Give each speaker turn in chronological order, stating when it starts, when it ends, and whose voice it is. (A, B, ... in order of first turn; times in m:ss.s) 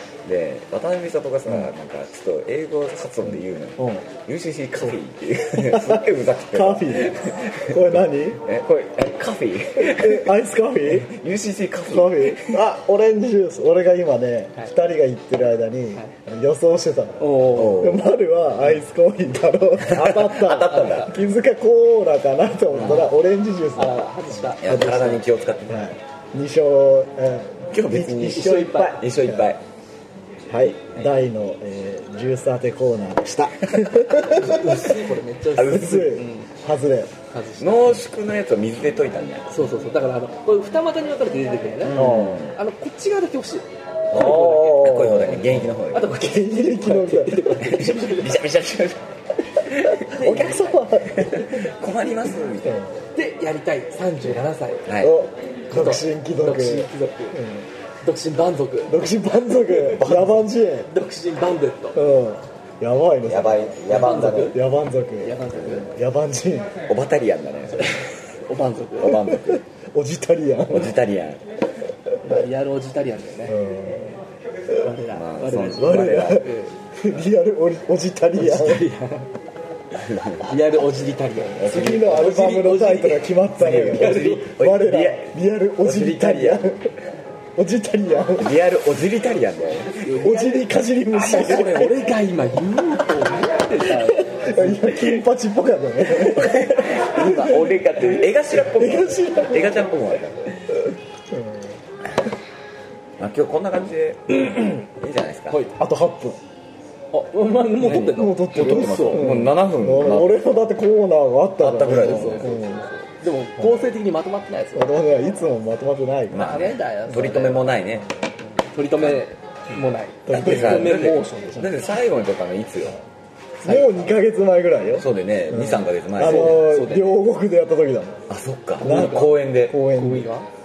0:00.2-0:10.3 A
0:03.3-0:04.1 B
0:05.5-0:08.4 B
0:09.8-0:11.1 B
0:10.9-0:12.6 A
0:11.9-0:29.6 B
0:17.2-0:18.0 C
0:17.6-0:17.9 A
0:19.9-0:21.2 A
0:20.7-0:21.1 C
0:23.8-0:25.2 C
0:24.6-0:25.8 A
0:27.7-0:29.6 A
0:28.3-0:29.0 C
0:30.5-0:34.9 B
0:34.2-0:36.5 C
0:35.6-0:36.0 A
0:35.7-0:37.1 B
0:37.3-0:38.1 C
0:37.6-0:39.6 A
0:39.5-0:48.4 C
0:41.9-0:42.6 A
0:41.9-0:42.5 B
0:44.1-0:46.1 A
0:44.1-0:47.8 B
0:47.6-0:49.0 A
0:49.6-0:52.8 A
0:50.1-0:51.7 B
0:50.1-0:50.8 C
0:52.6-0:53.0 B
0:53.1-0:54.9 C
0:54.8-0:55.2 A
0:55.0-0:57.7 B
0:55.7-0:57.4 C
0:58.0-0:59.0 C
0:58.9-1:00.9 B
0:59.6-1:00.2 C
0:59.8-1:00.4 A
1:00.9-1:02.0 C
1:02.0-1:06.8 B
1:03.2-1:04.6 A
1:03.9-1:04.6 C
1:05.2-1:05.9 C
1:05.6-1:05.8 A
1:06.9-1:08.2 A
1:07.7-1:09.2 C
1:09.0-1:09.6 A
1:09.0-1:11.0 B
1:10.7-1:11.4 A
1:12.2-1:14.2 C
1:13.5-1:14.1 B
1:14.8-1:16.8 C
1:15.1-1:16.5 A
1:15.7-1:18.9 B
1:18.4-1:19.3 C
1:20.1-1:20.4 A
1:20.4-1:24.5 C
1:21.6-1:27.0 B
1:21.6-1:22.6 A
1:23.6-1:26.7 A
1:27.6-1:28.6 B
1:28.4-1:30.1 A
1:30.0-1:35.2 C
1:30.2-1:32.1 B
1:31.3-1:31.9 A
1:33.9-1:37.8 B
1:36.1-1:40.6 A
1:38.5-1:39.9 B
1:41.3-1:41.8 B
1:43.2-1:45.6 A
1:44.4-1:44.8 C
1:45.5-1:45.8 C
1:45.8-1:46.4 B
1:47.1-1:49.3 C
1:47.8-1:50.4 A
1:47.9-1:52.9 B
1:51.6-1:52.6 A
1:51.8-1:55.0 C
1:54.7-1:56.6 B
1:56.3-1:58.1 A
1:56.4-1:57.8 C
1:58.4-2:01.8 C
2:00.3-2:01.1 B
2:00.3-2:03.0 A
2:03.6-2:08.2 B
2:03.6-2:04.1 C
2:05.0-2:06.7 A
2:06.2-2:07.2 C
2:08.3-2:09.8 A
2:08.8-2:09.4 C
2:08.8-2:10.3 B
2:09.9-2:10.5 C